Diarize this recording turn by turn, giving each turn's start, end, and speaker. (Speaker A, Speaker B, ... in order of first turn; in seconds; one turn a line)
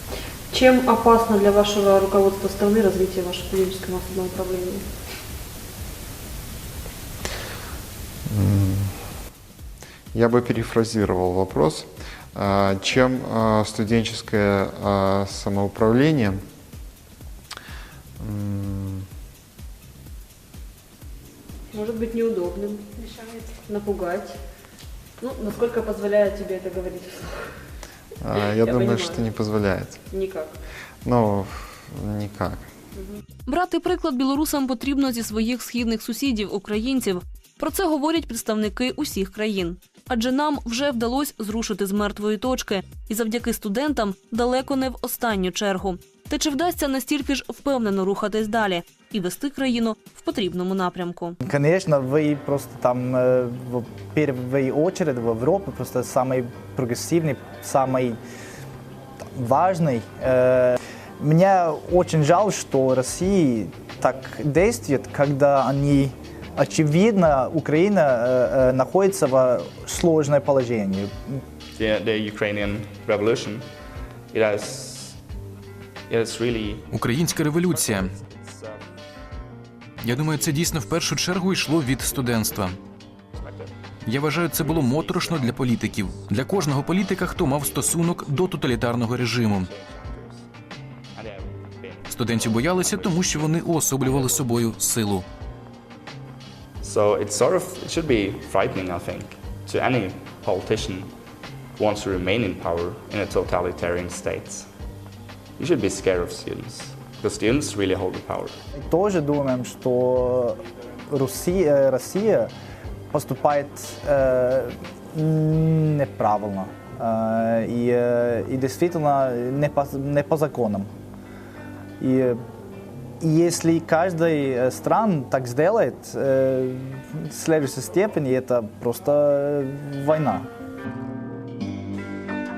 Speaker A: 0.5-4.8
Speaker B: 8.3-9.0
Speaker B: 10.1-16.4
Speaker B: 18.2-19.1
Speaker A: 21.7-22.9
Speaker A: 23.6-24.3
Speaker A: 25.2-27.4
Speaker B: 28.2-30.0
Speaker A: 28.5-29.3
Speaker A: 30.1-30.5
Speaker B: 31.1-32.7
Speaker A: 33.5-51.4
Speaker C: 51.4-58.2
Speaker C: 59.4-71.4
Speaker D: 71.8-73.7
Speaker D: 74.3-75.2
Speaker D: 76.1-79.0
Speaker E: 76.9-78.1
Speaker E: 80.0-82.8
Speaker D: 80.0-82.8
Speaker D: 83.3-90.5
Speaker E: 84.1-89.7
Speaker D: 91.2-94.8
Speaker E: 92.1-95.2
Speaker D: 96.8-101.1
Speaker D: 101.8-104.7
Speaker D: 105.6-108.6
Speaker C: 108.8-112.5
Speaker C: 113.1-120.9
Speaker C: 122.0-122.4
Speaker C: 123.2-130.5